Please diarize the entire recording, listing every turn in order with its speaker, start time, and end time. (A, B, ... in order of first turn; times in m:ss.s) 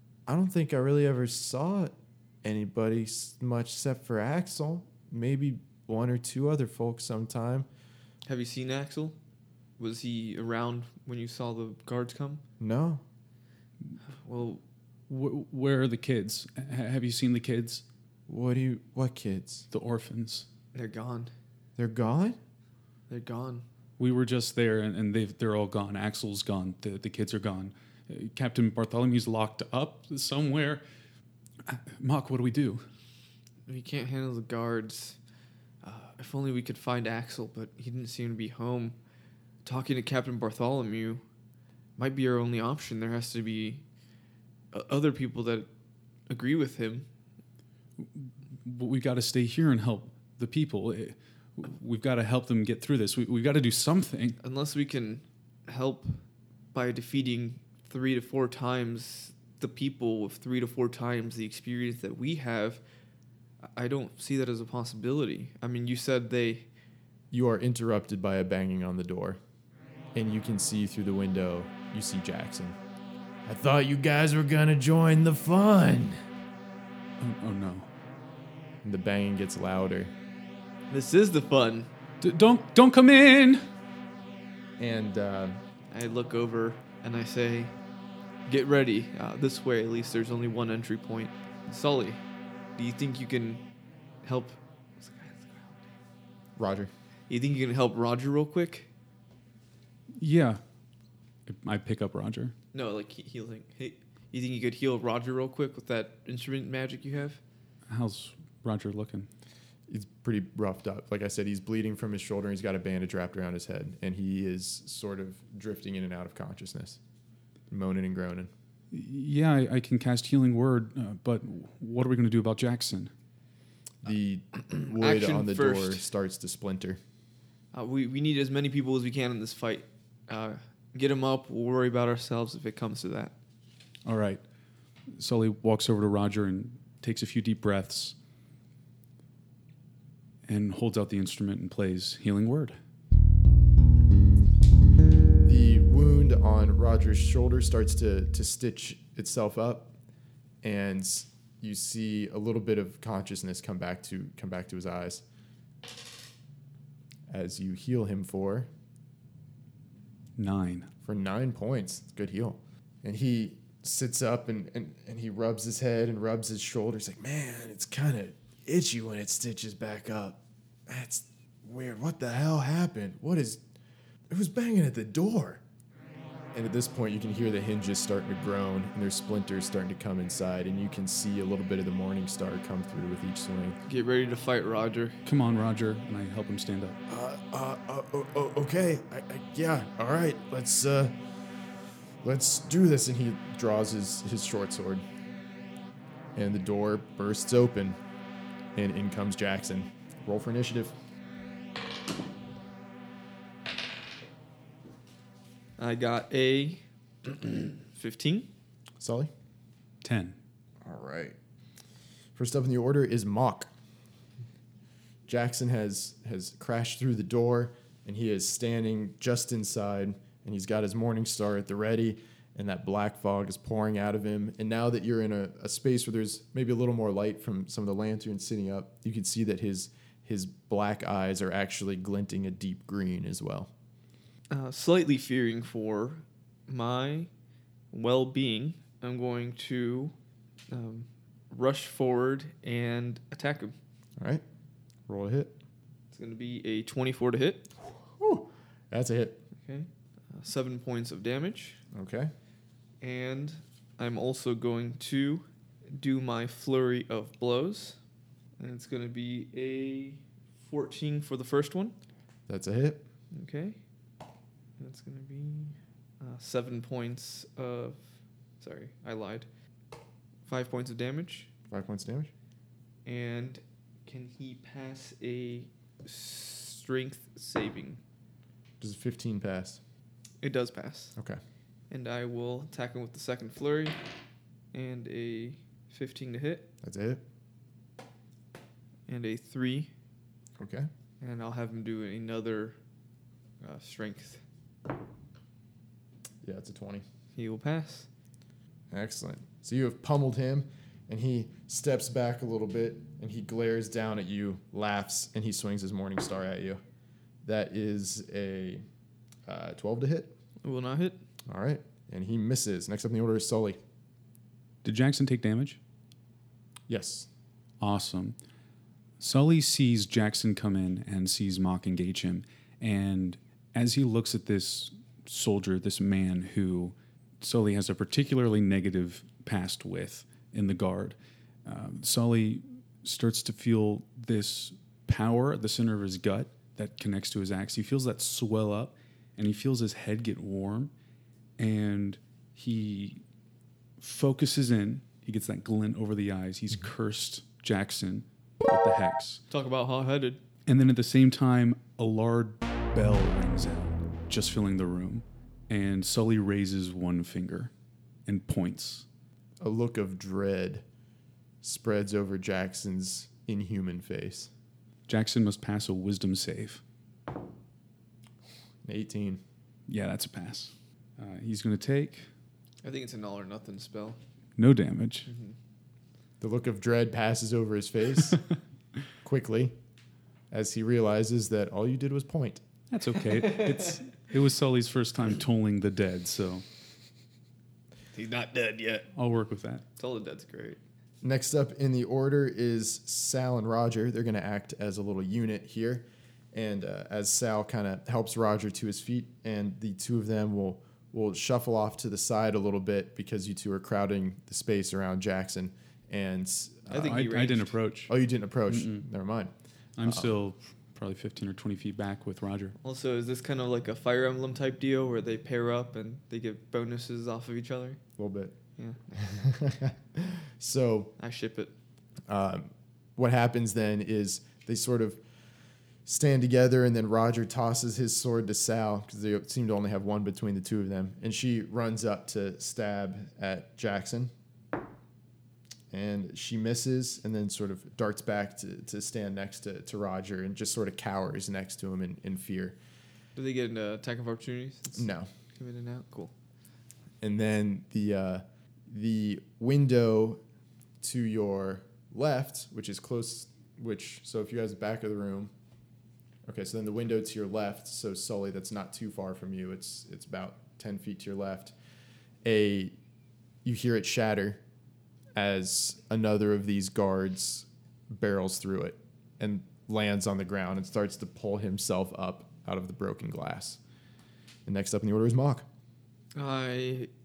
0:00.3-0:01.9 A
0:02.4-0:07.7 A
0:08.2-0:09.2 B
0:09.8-0:12.4 B
0:12.6-0:13.0 A
0:14.0-0:14.6 B
0:15.1-0:17.8 C
0:18.3-0:19.7 A
0:19.7-0:20.4 C
0:20.7-0:21.3 B
0:21.8-0:22.4 A
0:23.1-0:23.6 B
0:24.0-0:30.8 C
0:31.6-0:32.8 C
0:33.7-0:35.2 B
0:35.8-0:38.9 B
0:39.6-0:41.2 B
0:42.0-0:43.8 B
0:44.7-0:45.7 B
0:46.3-0:47.1 B
0:48.0-0:54.4 C
0:54.4-0:56.2 B
0:56.7-1:02.8 B
1:03.8-1:06.7 B
1:07.3-1:09.4 A
1:10.1-1:12.8 A
1:13.4-1:16.2 A
1:17.2-1:17.9 C
1:18.8-1:20.1 A
1:20.9-1:21.9 B
1:22.2-1:23.6 C
1:24.8-1:25.6 A
1:25.9-1:27.7 B
1:28.5-1:32.2 B
1:32.8-1:33.6 B
1:34.2-1:35.7 B
1:36.6-1:36.9 A
1:37.3-1:38.9 B
1:40.2-1:40.6 C
1:41.5-1:42.5 C
1:42.7-1:47.4 B
1:47.9-1:49.3 C
1:49.9-1:57.0 A
1:57.7-1:58.5 A
1:58.9-2:03.1 C
2:04.0-2:07.0 A
2:04.7-2:06.0 B
2:07.7-2:13.3 B
2:14.0-2:14.4 C
2:15.2-2:18.2 C
2:20.5-2:22.8 C
2:25.4-2:29.9 A
2:30.6-2:35.2 A
2:37.3-2:38.7 A
2:40.4-2:40.9 C
2:41.0-2:50.4 A
2:50.9-2:53.6 A
2:54.3-2:55.6 A
2:56.5-3:03.8 A
3:03.9-3:05.2 B
3:05.2-3:07.0 C
3:07.1-3:11.1 A
3:12.2-3:15.0 A
3:16.3-3:18.0 A
3:18.7-3:20.9 A
3:25.8-3:28.5 B
3:29.0-3:29.3 A
3:30.0-3:30.4 C
3:30.8-3:31.4 A
3:32.3-3:33.7 A
3:35.3-3:53.7 A
3:54.5-3:57.3 B
3:57.9-4:00.1 B
4:00.7-4:03.8 B
4:04.2-4:04.4 A
4:05.1-4:05.5 A
4:06.1-4:07.7 B
4:07.9-4:09.4 A
4:09.6-4:11.8 B
4:11.9-4:12.3 A
4:13.0-4:18.0 B
4:18.6-4:21.9 B
4:22.5-4:23.0 A
4:23.3-4:23.8 B
4:24.8-4:28.0 B
4:28.6-4:29.5 B
4:30.5-4:31.5 B
4:31.7-4:32.3 A
4:33.0-4:38.0 B
4:38.8-4:39.8 A
4:40.4-4:41.1 B
4:41.9-4:44.0 B
4:44.7-4:46.7 B
4:46.8-4:47.2 A
4:49.1-4:49.9 B
4:50.6-4:50.9 A
4:51.2-4:52.8 B
4:53.6-4:54.4 B
4:56.4-4:57.0 A
4:57.4-4:58.1 B
4:58.9-5:06.8 A
5:07.4-5:08.8 A
5:09.4-5:10.3 A
5:10.6-5:11.2 B
5:11.5-5:13.8 A
5:14.8-5:15.8 C
5:16.9-5:17.3 A
5:17.8-5:18.4 C
5:19.2-5:40.9 C
5:41.6-5:43.2 C
5:44.0-5:49.4 C
5:49.5-5:50.4 B
5:50.6-5:57.7 C
5:58.2-5:59.0 C
5:59.6-6:00.8 A
6:01.6-6:04.5 A
6:05.1-6:06.8 C
6:08.8-6:09.4 A
6:09.9-6:12.3 C
6:12.8-6:14.2 B
6:14.6-6:15.3 C
6:15.3-6:15.6 B
6:16.4-6:18.4 A
6:19.2-6:19.7 A
6:20.5-6:22.6 A
6:22.9-6:26.6 C
6:23.4-6:23.9 B
6:28.1-6:29.1 B
6:29.1-6:29.8 C
6:30.0-6:30.8 B
6:31.2-6:47.2 A
6:46.9-6:47.7 B
6:47.0-6:48.1 C
6:48.1-6:49.5 A
6:48.7-6:49.0 C
6:50.0-6:52.7 C
6:50.0-6:50.3 A
6:52.8-6:58.0 B
6:58.2-6:58.5 A
6:58.8-6:59.4 B
6:59.2-7:01.1 A
7:01.2-7:01.7 B
7:02.3-7:05.2 A
7:06.0-7:14.3 A
7:15.9-7:22.8 A
7:23.4-7:26.3 B
7:24.9-7:25.3 A
7:27.2-7:30.4 A
7:31.0-7:35.5 A
7:36.4-7:41.7 A
7:42.4-7:42.9 A
7:43.6-7:44.6 A
7:45.4-7:53.8 A
7:54.6-7:55.6 A
7:56.3-7:57.1 B